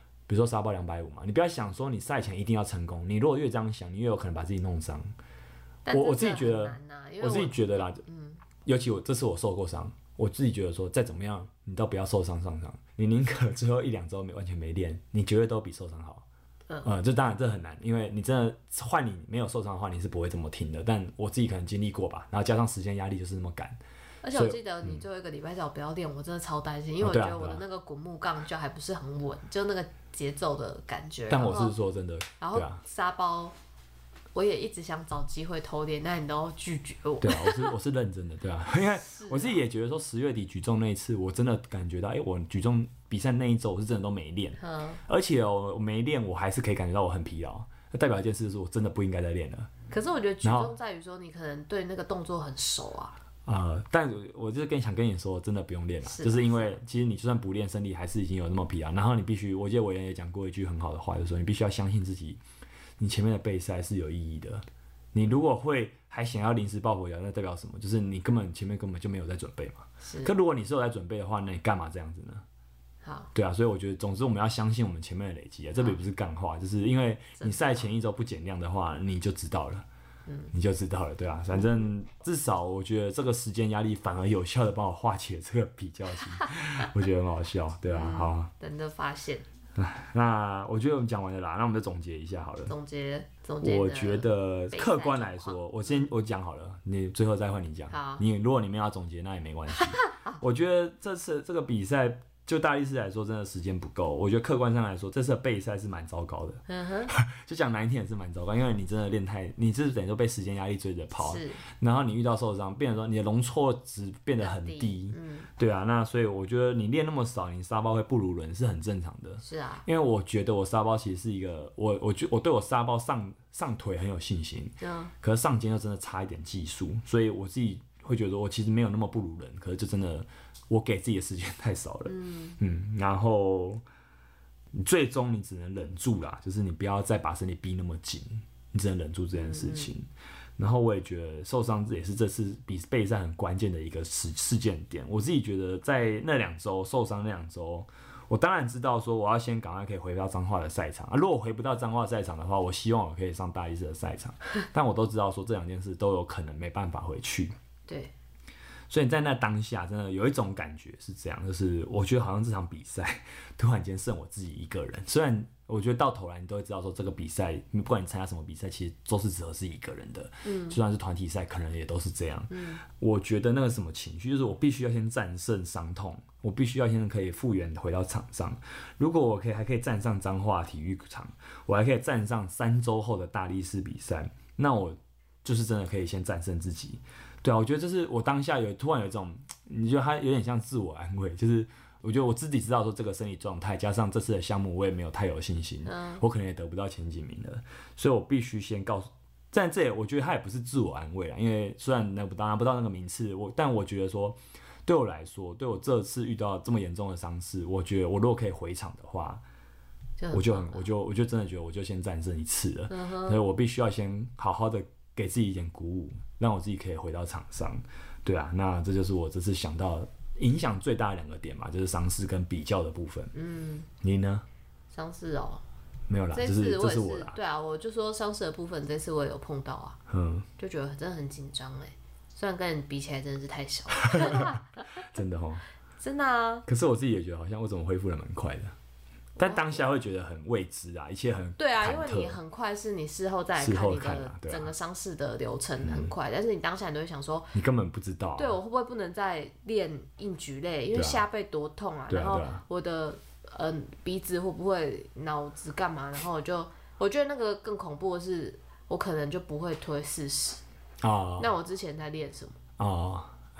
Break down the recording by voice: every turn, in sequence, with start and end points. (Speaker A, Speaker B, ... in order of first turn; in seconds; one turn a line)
Speaker A: 0.3-5.2
Speaker B: 5.8-8.4
Speaker A: 5.9-8.0
Speaker A: 8.6-16.2
Speaker A: 16.8-23.8
Speaker B: 24.2-31.7
Speaker A: 24.3-25.0
Speaker A: 27.0-27.6
Speaker A: 31.3-32.8
Speaker B: 32.4-33.5
Speaker B: 34.3-37.8
Speaker A: 37.2-49.7
Speaker B: 39.0-39.6
Speaker B: 44.6-45.0
Speaker B: 49.9-53.2
Speaker A: 50.4-50.7
Speaker A: 53.5-62.4
Speaker B: 56.0-56.8
Speaker A: 63.0-72.4
Speaker B: 70.0-70.3
Speaker B: 73.0-73.3
Speaker A: 73.3-79.8
Speaker B: 77.4-77.8
Speaker B: 80.3-80.5
Speaker A: 80.5-88.5
Speaker B: 87.9-89.4
Speaker A: 89.8-92.7
Speaker B: 92.7-96.0
Speaker A: 93.6-133.8
Speaker B: 97.9-98.2
Speaker B: 99.8-100.4
Speaker B: 106.7-107.1
Speaker B: 111.2-111.6
Speaker B: 114.4-115.5
Speaker B: 119.4-119.8
Speaker B: 124.8-125.1
Speaker B: 132.1-132.6
Speaker A: 134.7-157.5
Speaker B: 139.3-139.9
Speaker B: 157.9-158.1
Speaker A: 158.9-209.4
Speaker B: 170.4-170.8
Speaker B: 172.5-172.8
Speaker B: 195.8-196.2
Speaker B: 210.2-210.8
Speaker A: 210.3-223.3
Speaker B: 212.9-213.4
Speaker B: 223.3-223.9
Speaker A: 224.0-224.4
Speaker B: 224.9-225.6
Speaker A: 226.1-227.4
Speaker B: 226.3-230.0
Speaker A: 230.1-230.5
Speaker B: 230.6-235.1
Speaker A: 234.0-235.6
Speaker B: 236.0-236.7
Speaker A: 236.7-238.7
Speaker B: 239.4-239.8
Speaker A: 239.4-242.4
Speaker B: 241.6-247.5
Speaker A: 243.6-244.7
Speaker A: 245.8-246.1
Speaker A: 247.5-248.6
Speaker B: 248.3-260.6
Speaker A: 250.9-251.2
Speaker A: 252.1-252.6
Speaker A: 261.0-261.5
Speaker B: 261.4-262.6
Speaker A: 262.8-263.4